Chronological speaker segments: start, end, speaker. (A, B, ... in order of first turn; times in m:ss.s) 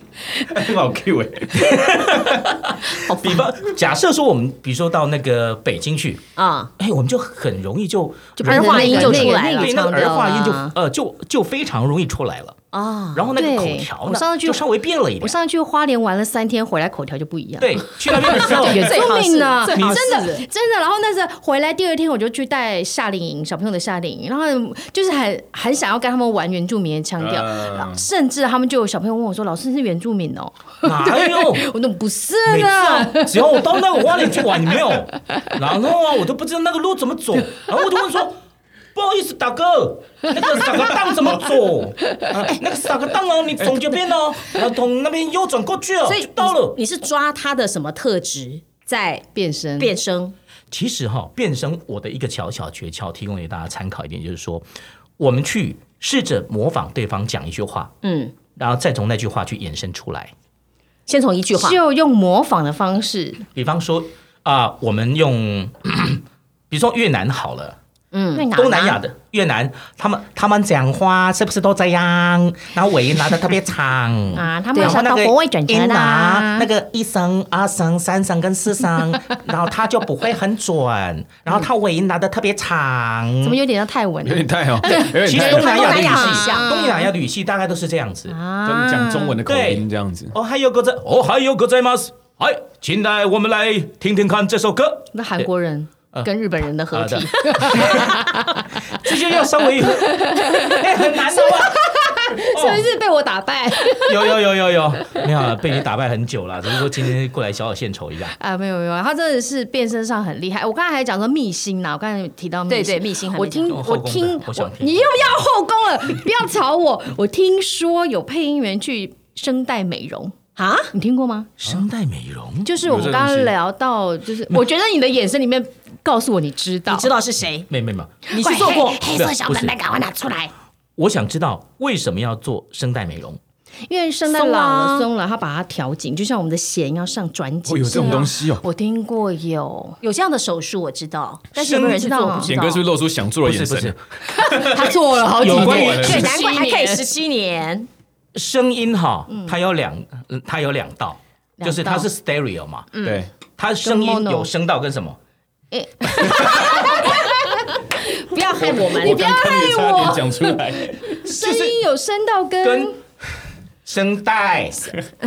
0:00.5-0:02.4 A
0:01.6-0:06.3 B
0:03.1-0:03.4 C
0:06.4-0:06.7 C
0:06.8-0:12.6 B
0:08.4-0:10.7 D
0:08.4-0:10.1 C
0:12.7-0:13.4 C
0:13.1-0:15.4 B
0:13.4-0:14.6 D
0:15.2-0:33.6 D
0:17.6-0:19.0 B
0:18.4-0:20.4 C
0:19.7-0:20.0 B
0:27.2-0:28.1 A
0:30.8-0:31.7 B
0:32.5-0:38.4 B
0:39.0-0:46.8 B
0:46.1-0:49.3 C
0:49.3-0:50.0 D
0:49.8-0:50.4 C
0:50.7-0:54.6 B
0:55.2-0:57.9 B
0:58.0-0:58.3 C
0:58.6-1:00.3 B
1:01.1-1:01.8 C
1:01.5-1:03.4 D
1:03.6-1:07.8 B
1:08.1-1:08.6 C
1:08.3-1:09.0 D
1:08.5-1:23.6 B
1:14.3-1:16.7 D
1:14.8-1:15.0 C
1:23.4-1:27.1 D
1:24.2-1:25.6 A
1:24.9-1:28.4 B
1:25.3-1:26.7 C
1:28.3-1:29.4 D
1:28.6-1:30.4 A
1:29.4-1:35.5 B
1:35.1-1:39.1 D
1:36.9-1:42.9 B
1:40.0-1:44.2 D
1:44.0-1:48.4 B
1:48.4-2:00.4 D
1:52.7-1:53.8 C
1:53.7-1:55.3 B
2:00.6-2:00.9 C
2:00.9-2:01.5 D
2:01.6-2:02.7 B
2:02.6-2:07.1 D
2:02.8-2:03.5 A
2:06.9-2:07.7 C
2:07.7-2:08.2 B
2:08.3-2:10.5 C
2:08.4-2:08.9 D
2:09.1-2:09.8 B
2:11.0-2:13.4 B
2:13.9-2:20.0 D
2:14.3-2:15.1 C
2:17.7-2:18.6 A
2:17.9-2:18.3 C
2:20.0-2:22.9 C
2:21.6-2:22.1 B
2:22.0-2:22.5 D
2:22.4-2:24.0 A
2:23.4-2:26.3 B
2:24.3-2:27.1 D
2:25.4-2:26.3 A
2:25.6-2:27.9 C
2:28.4-2:32.9 B
2:29.3-2:29.6 D
2:31.6-2:32.1 D
2:32.9-2:33.2 C
2:33.0-2:33.3 A
2:33.6-2:35.2 B
2:33.8-2:34.5 D
2:35.7-2:43.0 D
2:38.3-2:39.3 C
2:38.6-2:41.2 A
2:41.4-2:41.8 B
2:42.6-2:43.0 B
2:43.8-2:44.9 B